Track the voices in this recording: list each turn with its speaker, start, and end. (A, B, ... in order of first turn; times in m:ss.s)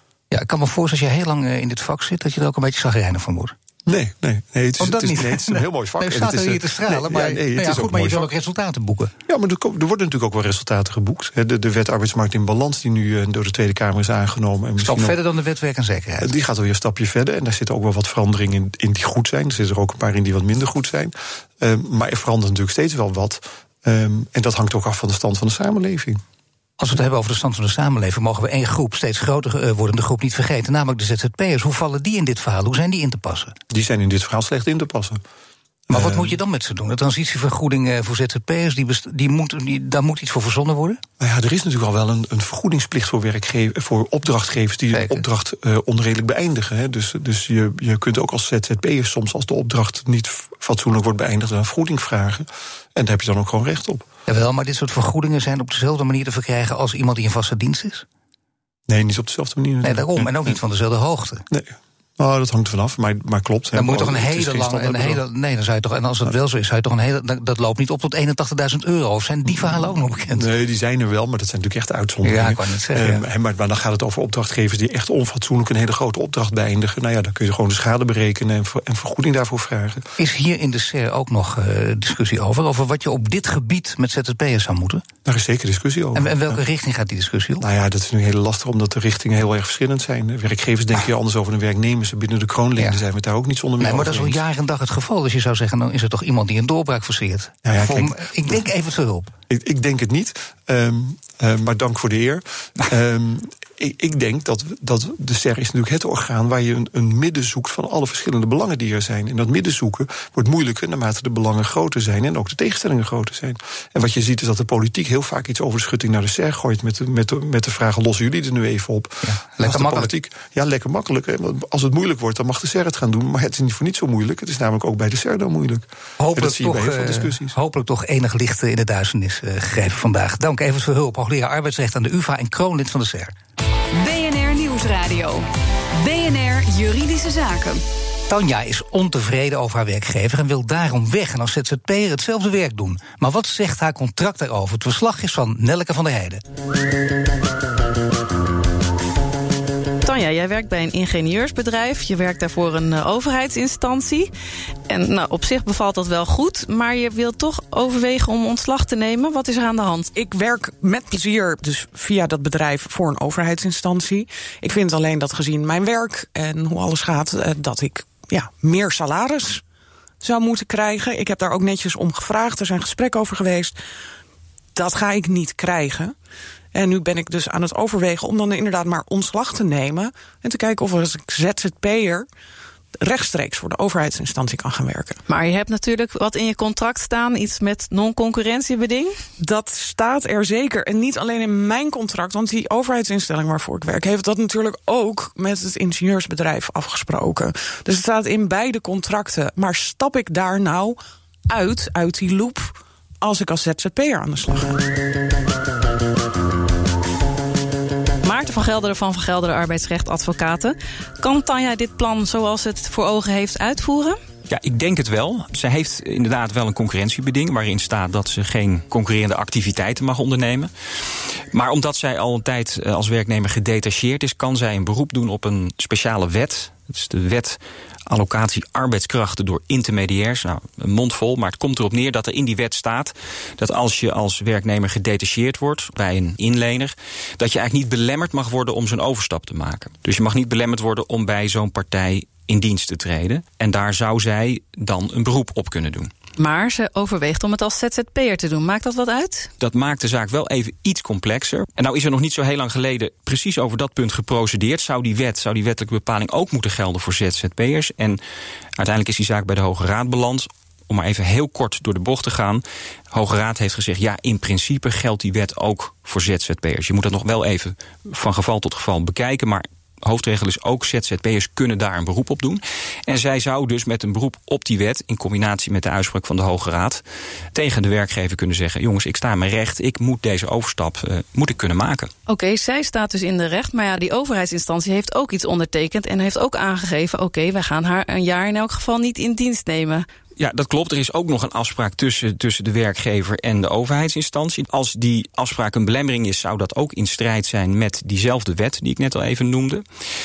0:00.3-0:03.6 A
0:03.9-0:08.3 B
0:04.8-0:09.1 A
0:09.3-0:15.2 B
0:14.8-0:16.3 A
0:16.2-0:26.2 B
0:26.8-0:33.5 A
0:33.7-0:35.2 B
0:35.9-0:36.4 B
0:35.9-0:41.0 A
0:41.2-0:54.1 B
0:44.9-0:45.2 A
0:54.3-0:58.1 A
0:58.9-1:00.6 B
0:59.8-1:01.4 A
1:01.5-1:05.2 B
1:03.7-1:10.5 A
1:10.3-1:20.1 B
1:12.2-1:13.2 A
1:20.2-1:25.0 A
1:25.2-1:26.6 B
1:26.2-1:27.7 A
1:27.6-1:34.4 B
1:33.8-1:39.3 A
1:37.6-1:38.6 B
1:39.5-2:07.6 B
1:59.2-2:00.1 A
2:06.2-2:13.3 A
2:13.9-2:17.8 C
2:18.3-2:26.4 A
2:30.0-2:34.3 D
2:34.9-2:40.1 D
2:40.2-2:49.6 E
2:50.2-2:53.8 E
2:54.8-2:56.2 E
2:56.7-3:02.3 E
3:03.0-3:05.2 E
3:05.3-3:09.2 D
3:09.4-3:21.0 E
3:21.5-3:24.8 E
3:28.2-3:34.2 D
3:34.5-3:40.7 F
3:41.5-4:06.1 F
4:06.4-4:09.5 D
4:09.6-4:18.2 F
4:18.8-4:37.0 F
4:37.5-4:42.1 F
4:42.3-4:50.1 D
4:50.4-4:59.8 F